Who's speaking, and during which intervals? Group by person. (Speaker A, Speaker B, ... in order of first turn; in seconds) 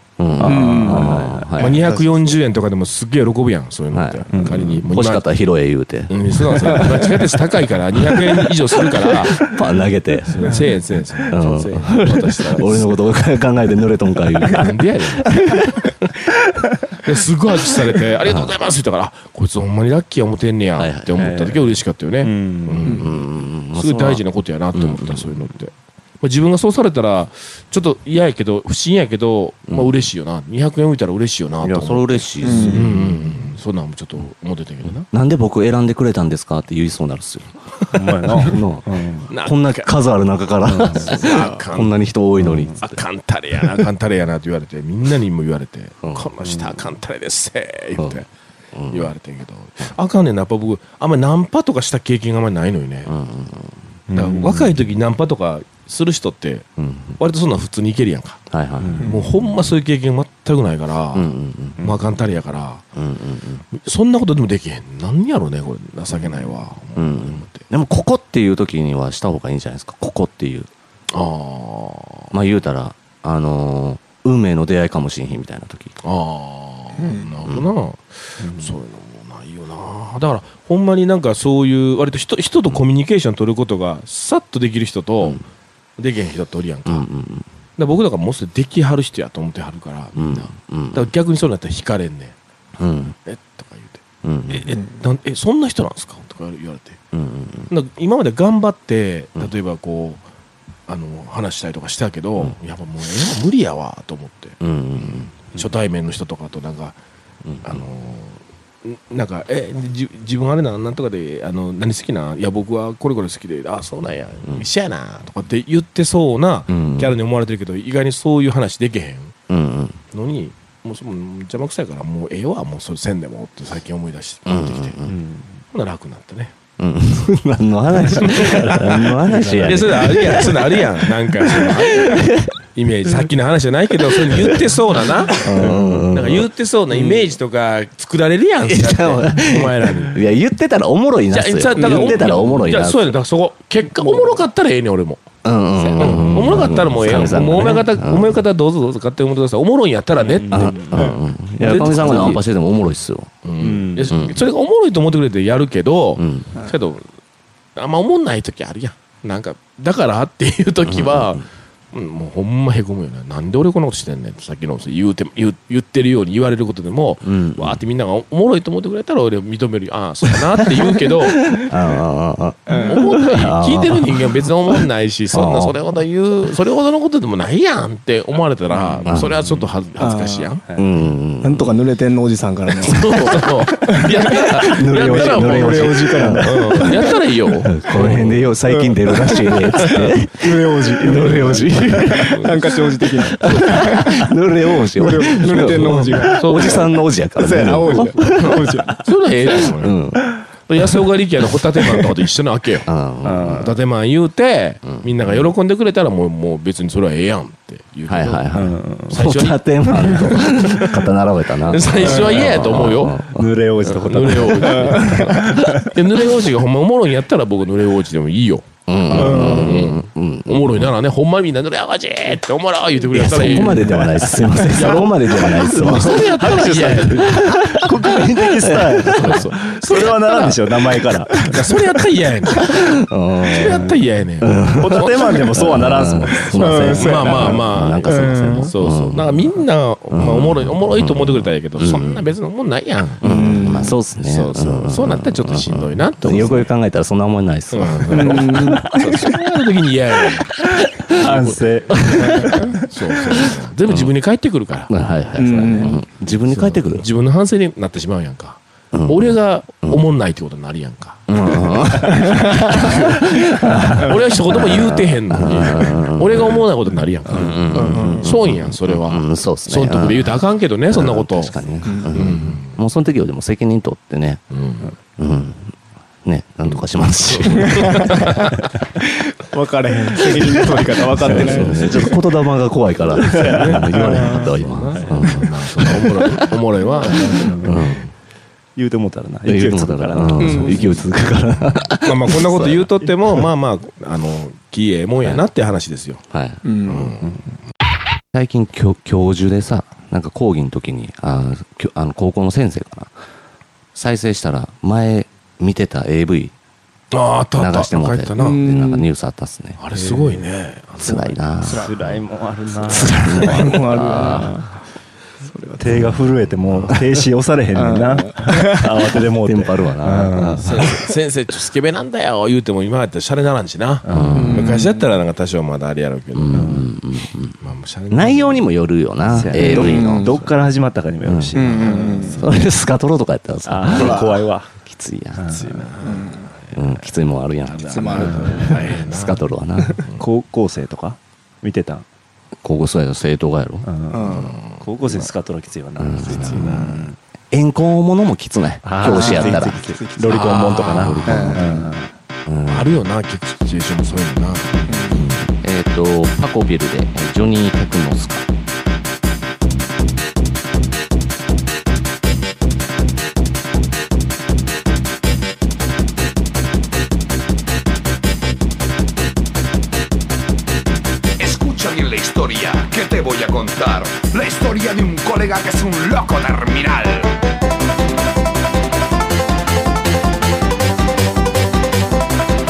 Speaker A: 0.2-1.9, 3.9-7.1, 8.8-10.6, 11.3-14.7, 18.2-18.5, 20.8-21.3, 22.8-24.2, 24.7-25.4, 31.6-33.3, 35.1-37.5, 38.3-43.0, 46.0-46.3, 48.7-49.1, 53.0-53.8, 56.8-57.2, 58.5-59.2, 61.1-61.9, 62.9-63.6, 67.0-70.7, 72.3-76.0, 86.9-87.5, 90.2-91.1, 92.8-93.2, 94.2-94.8, 97.1-97.7, 104.6-105.3, 107.5-107.8, 116.7-117.1, 119.5-120.0, 124.5-125.2, 126.8-132.5, 134.1-134.6, 135.4-137.2, 138.7-143.1, 145.4-148.4, 150.5-153.3, 154.1-154.4, 156.2-156.5, 160.8-161.4, 167.2-167.8, 171.3-174.3, 175.3-175.8, 179.1-179.4, 180.7-181.8, 183.0-183.4, 184.3-187.1, 187.6-192.7, 193.3-198.7, 199.8-200.3, 202.8-203.7, 204.8-205.5, 208.1-213.5, 218.8-220.9, 223.1-231.1, 232.6-239.5, 240.1-242.2, 243.2-249.3, 250.7-251.2, 251.9-252.6, 253.9-254.1, 254.9-257.1, 258.9-260.0, 261.3-266.7, 267.3-274.4, 275.2-278.3, 281.2-286.5, 287.6-288.1, 289.4-292.9, 296.3-296.6, 298.3-303.1, 303.9-306.5, 307.6-309.8, 311.0-311.9, 313.1-314.6, 319.4-320.8, 324.1-324.7, 326.3-327.6, 328.1-330.5, 331.2-335.6, 336.7-340.0, 342.6-343.9, 346.0-347.0, 347.5-349.8, 350.4-351.9, 352.4-353.0, 355.1-358.4
Speaker B: 0.4-1.7, 4.3-4.7, 21.1-23.0, 37.9-39.3, 40.6-41.1, 42.4-42.7, 54.1-54.7, 58.8-59.2, 78.4-78.7, 125.1-125.5, 128.2-130.3, 146.0-146.5, 150.2-151.2, 152.0-152.3, 153.6-154.2, 179.0-179.4, 203.2-203.7, 208.5-209.2, 212.0-216.0, 223.5-231.6, 234.7-237.4, 251.1-252.9, 281.2-282.0, 283.1-285.3, 287.1-287.8, 288.8-291.0, 309.9-310.4, 311.7-314.4, 315.8-320.9, 324.0-324.6, 326.5-326.9, 329.3-332.4, 333.6-334.7, 335.4-335.8, 338.2-338.8, 340.2-342.0, 343.8-347.1, 348.8-352.1
Speaker C: 0.4-1.2, 32.4-32.8, 77.0-77.3, 141.7-142.3, 172.7-173.0, 180.0-180.6, 181.4-187.2, 188.6-194.3, 194.8-199.0, 212.0-212.3, 214.7-215.2, 219.2-219.7, 236.5-238.7, 243.2-244.0, 248.1-249.0, 255.4-256.0, 267.7-268.3, 271.9-272.2, 277.6-282.2, 284.0-284.5, 287.0-287.3, 290.4-290.9, 296.6-297.1, 308.4-309.1, 311.6-312.0, 312.9-314.8, 315.4-316.2, 317.7-319.2, 324.3-325.1, 329.5-330.4, 331.5-332.4, 333.9-334.4, 336.0-336.5, 337.9-338.8, 344.1-344.6, 349.0-350.6, 351.3-351.9, 354.9-355.2
Speaker D: 1.6-5.2, 6.1-9.6, 10.3-13.0, 14.5-15.4, 16.9-35.1, 39.3-39.9, 40.9-42.0, 42.8-48.3, 48.9-53.1, 54.1-56.7, 57.2-58.4, 59.0-62.8, 63.7-67.6, 71.1-72.3, 76.0-85.4, 86.0-87.0, 87.8-92.3, 93.2-97.0, 97.7-100.2, 100.9-107.0, 107.6-119.3, 120.1-125.0, 125.7-126.5, 128.1-129.0, 129.6-140.3, 141.3-152.4, 153.4-157.0, 157.8-171.7, 172.7-180.7, 182.8-188.4, 189.8-190.1, 191.1-192.8, 193.4-193.7, 195.5-196.8, 197.9-202.9, 203.4-211.1, 211.6-213.2, 213.8-228.2, 228.9-229.8, 231.4-235.5, 236.8-243.2, 244.2-246.7, 247.7-254.9, 255.6-272.8, 274.5-274.9, 276.7-278.5, 281.3-282.0, 283.2-288.0, 290.4-291.0, 291.8-296.2, 296.8-297.4, 307.1-308.6, 309.8-311.4, 316.6-316.9, 320.6-326.9, 327.6-328.7, 329.4-329.9, 331.7-332.4, 335.5-336.8, 337.7-339.4, 344.3-344.9, 346.2-347.1, 350.3-351.3, 352.7-354.9
Speaker E: 371.4-377.3